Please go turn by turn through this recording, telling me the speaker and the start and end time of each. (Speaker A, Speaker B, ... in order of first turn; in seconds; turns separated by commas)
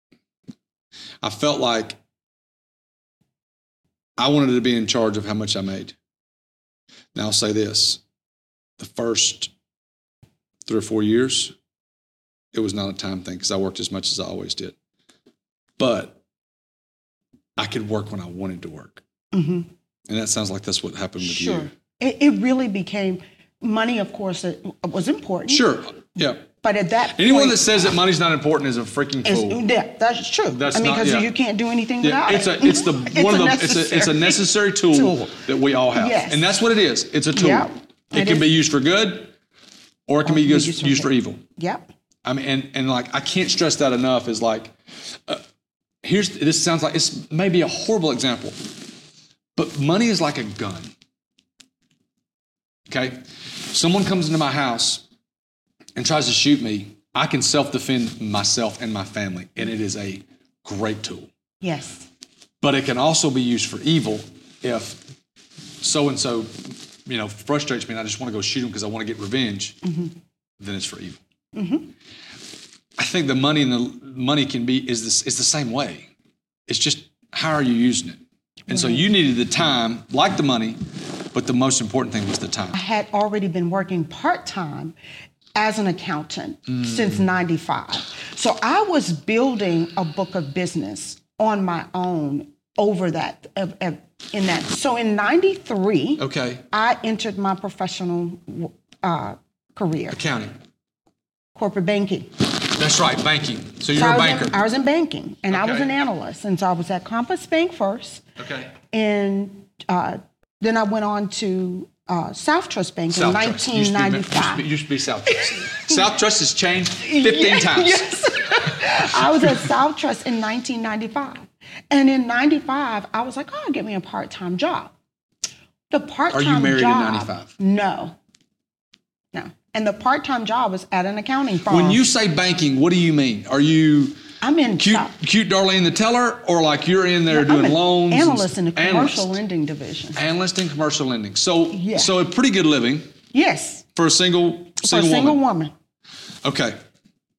Speaker A: 1.2-2.0, Speaker A: 4.2-6.0, Speaker A: 7.1-8.0, Speaker A: 8.8-9.5, Speaker A: 10.7-11.5, Speaker A: 12.5-14.8, Speaker A: 15.8-16.2, Speaker A: 17.6-19.0, Speaker B: 19.3-19.7, Speaker A: 20.1-21.7, Speaker B: 21.2-25.6, Speaker A: 25.5-26.5, Speaker B: 26.6-27.7, Speaker A: 27.1-29.6, Speaker B: 29.2-35.4, Speaker A: 30.5-31.3, Speaker A: 32.0-39.3, Speaker B: 35.9-36.5, Speaker B: 37.3-38.5, Speaker A: 40.1-41.4, Speaker B: 40.2-41.9, Speaker A: 42.2-45.4, Speaker A: 46.0-48.8, Speaker A: 49.5-50.9, Speaker A: 52.9-55.0, Speaker A: 56.0-61.3, Speaker B: 61.6-62.1, Speaker A: 62.6-65.0, Speaker A: 65.8-69.8, Speaker B: 69.8-70.1, Speaker A: 70.6-71.2, Speaker B: 71.5-71.9, Speaker A: 73.0-76.1, Speaker A: 76.7-80.8, Speaker B: 78.7-79.0, Speaker A: 81.3-82.8, Speaker B: 82.7-84.9, Speaker B: 85.5-100.2, Speaker A: 86.7-87.2, Speaker A: 96.2-96.6, Speaker A: 100.1-100.5, Speaker B: 101.5-102.3, Speaker A: 102.6-104.6, Speaker B: 103.9-108.2, Speaker A: 105.5-105.9, Speaker A: 108.4-108.7, Speaker B: 108.9-114.7, Speaker A: 113.1-119.7, Speaker B: 115.5-116.0, Speaker B: 117.0-124.9, Speaker B: 125.9-128.2, Speaker A: 126.3-127.5, Speaker B: 129.3-132.0, Speaker A: 131.7-134.2, Speaker B: 134.4-135.1, Speaker A: 134.8-139.4, Speaker B: 137.3-140.2, Speaker A: 140.2-143.1, Speaker B: 141.7-142.2, Speaker B: 143.3-143.8, Speaker A: 143.9-145.4, Speaker B: 144.8-145.7, Speaker A: 146.4-146.8